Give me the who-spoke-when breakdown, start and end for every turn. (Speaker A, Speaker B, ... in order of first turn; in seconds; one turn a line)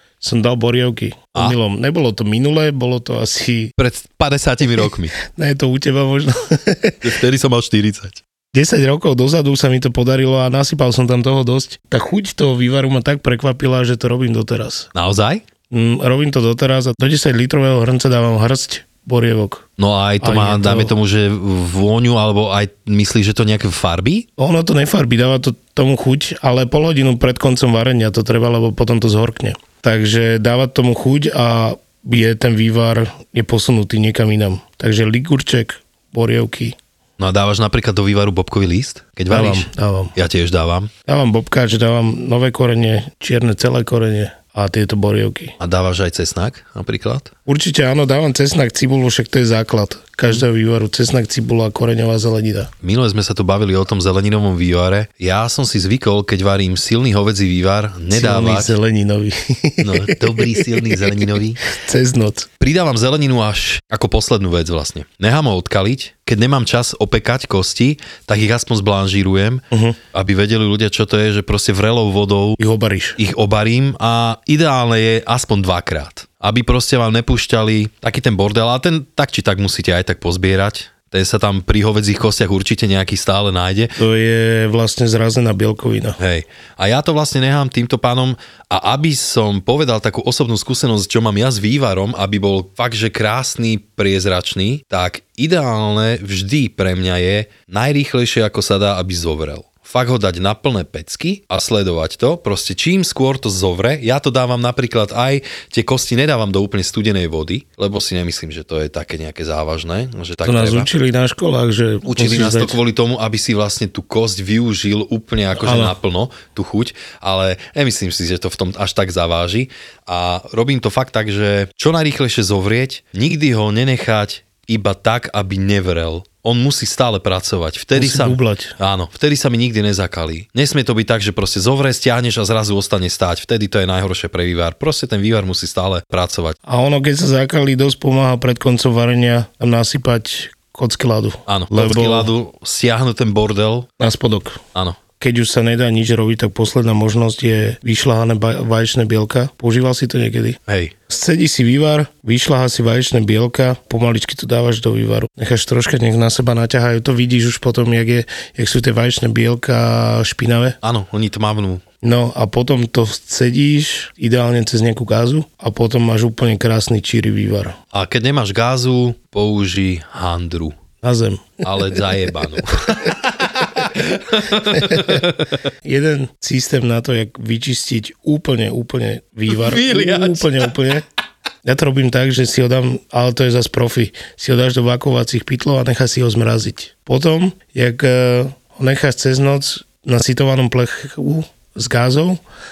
Speaker A: 0.2-3.7
Speaker B: 3.8-5.2
Speaker A: 5.2-7.1
Speaker B: 7.0-8.2
Speaker A: 8.5-14.9
Speaker B: 14.9-15.4
Speaker A: 15.7-19.7
Speaker B: 19.8-24.3
Speaker A: 20.2-20.9
Speaker A: 24.4-36.8
Speaker B: 37.2-40.9
Speaker A: 39.3-40.1
Speaker A: 41.1-45.6
Speaker B: 45.6-47.3
Speaker A: 47.5-52.7
Speaker B: 52.8-58.8
Speaker A: 58.1-62.5
Speaker B: 59.8-61.6
Speaker B: 62.6-72.6
Speaker A: 69.7-70.0
Speaker A: 72.6-73.2
Speaker B: 73.2-84.0
Speaker A: 84.0-86.2
Speaker B: 86.2-110.9
Speaker A: 110.4-112.8
Speaker B: 112.1-136.6
Speaker A: 115.6-116.0
Speaker A: 127.9-128.8
Speaker A: 136.7-142.3
Speaker B: 141.5-143.9
Speaker A: 144.0-144.6
Speaker B: 144.8-145.0
Speaker A: 145.2-150.6
Speaker B: 150.7-150.9
Speaker A: 151.1-160.8
Speaker B: 160.8-161.8
Speaker A: 162.0-167.8
Speaker B: 167.9-170.8
Speaker A: 171.0-172.1
Speaker B: 171.6-175.6
Speaker A: 174.6-175.3
Speaker A: 175.8-181.1
Speaker B: 179.5-180.7
Speaker A: 181.6-192.4